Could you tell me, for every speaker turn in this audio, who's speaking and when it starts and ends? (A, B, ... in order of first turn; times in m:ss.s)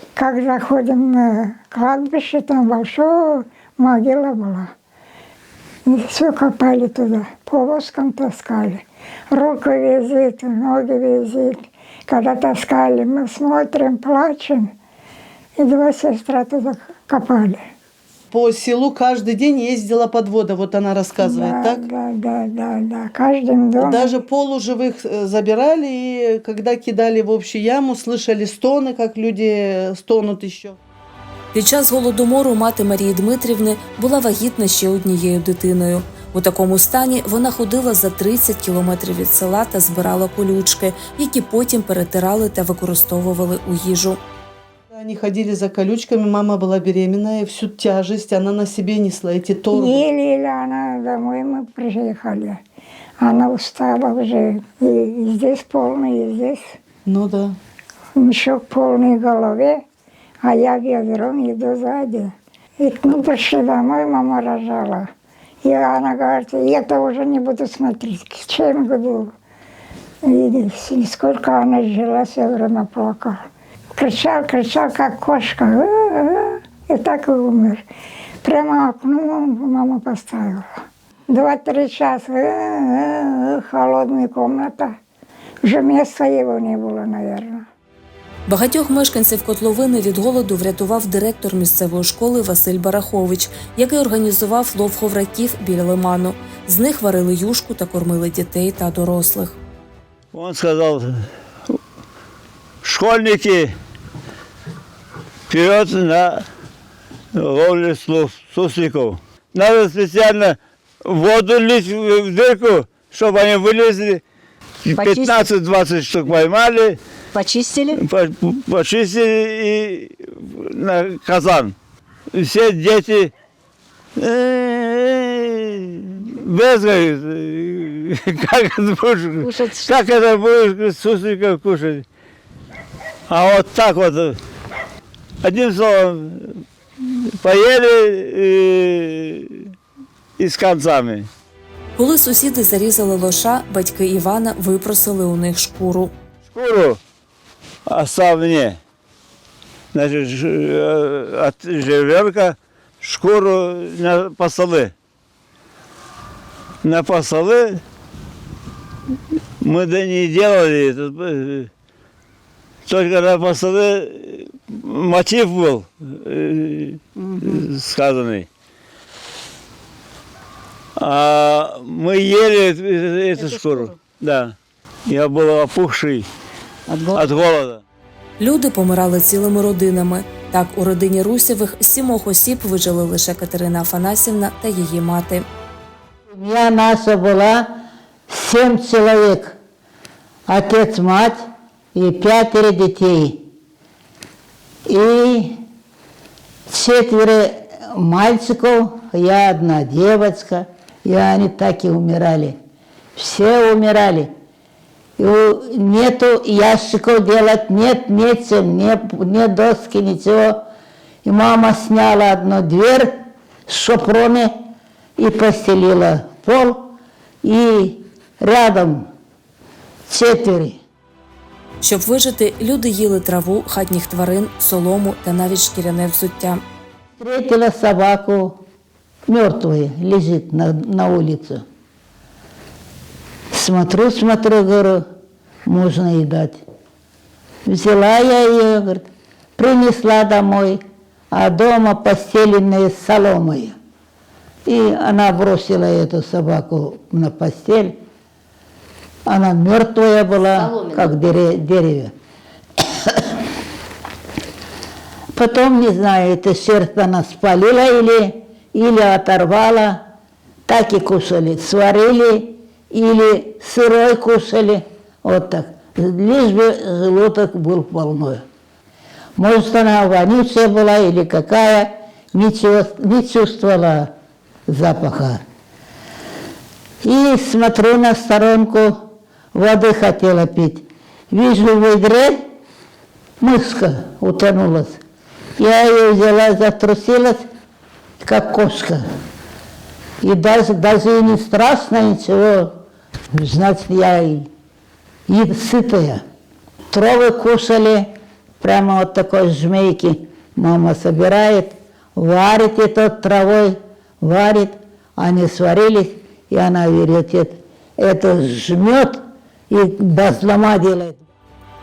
0:00.2-0:04.7 A
0:05.9-0:11.6 A
0:12.1-0:14.7 A
0:15.6-0:17.6 A
0:18.3-0:21.8 B
0:21.2-0:24.1 A
0:23.8-0:30.8 B
0:31.5-0:44.2 C
0:44.9-0:50.0 B
0:49.7-0:52.6 A
0:53.2-0:56.6 A
0:57.0-0:57.6 B
0:58.2-0:59.8 A
1:00.4-1:05.0 A
1:05.6-1:09.3 A
1:10.2-1:13.4 A
1:14.0-1:17.8 A
1:18.4-1:20.6 A
1:21.3-1:24.9 A
1:25.6-1:27.6 A
1:28.5-1:39.5 C
1:40.3-1:41.2 D
1:42.8-1:43.7 D
1:45.5-1:46.4 D
1:47.4-1:54.2 D
1:54.8-1:57.0 D
1:54.9-1:55.5 E
1:57.3-1:58.0 E
1:57.9-2:01.7 D
2:02.3-2:03.3 D
2:04.2-2:12.0 D
2:09.4-2:09.8 E
2:13.3-2:14.4 D
2:15.4-2:16.6 D
2:17.4-2:19.7 D
2:20.4-2:21.3 D
2:22.0-2:26.1 C
2:26.5-2:27.0 D
2:27.9-2:28.8 D
2:29.9-2:34.9 D
2:36.8-2:37.8 D
2:39.6-2:41.7 D
2:42.8-2:48.5 D
2:47.2-2:47.6 E
2:51.0-2:54.5 D
2:53.4-2:53.9 E
2:55.1-2:56.2 D
2:56.9-2:57.2 E
2:57.1-2:57.8 D
2:58.4-3:05.4 C
3:06.3-3:07.7 F
3:08.3-3:09.6 F
3:10.5-3:13.4 F
3:14.8-3:15.6 F
3:16.7-3:22.6 F
3:23.2-3:24.3 F
3:25.2-3:30.6 F
3:31.2-3:33.2 F
3:33.7-3:34.5 F
3:35.2-3:39.1 F
3:40.1-3:40.8 F
3:41.8-3:46.6 C
3:47.2-3:48.6 F
3:49.3-3:51.6 F
3:53.5-3:55.0 F
3:55.6-3:56.6 F
3:57.6-3:59.0 F
3:59.6-4:00.8 F
4:01.3-4:03.8 F
4:04.6-4:08.0 F
4:09.2-4:12.1 F
4:15.3-4:20.0 F
4:20.7-4:28.4 F
4:29.4-4:34.1 F
4:34.7-4:35.4 F
4:37.0-4:39.0 F
4:39.5-4:42.4 F
4:43.4-4:45.0 F
4:45.6-4:47.4 F
4:48.2-4:49.0 F
4:50.2-4:52.8 F
4:53.3-4:54.5 F
4:55.3-4:56.2 F
4:56.9-5:11.2 F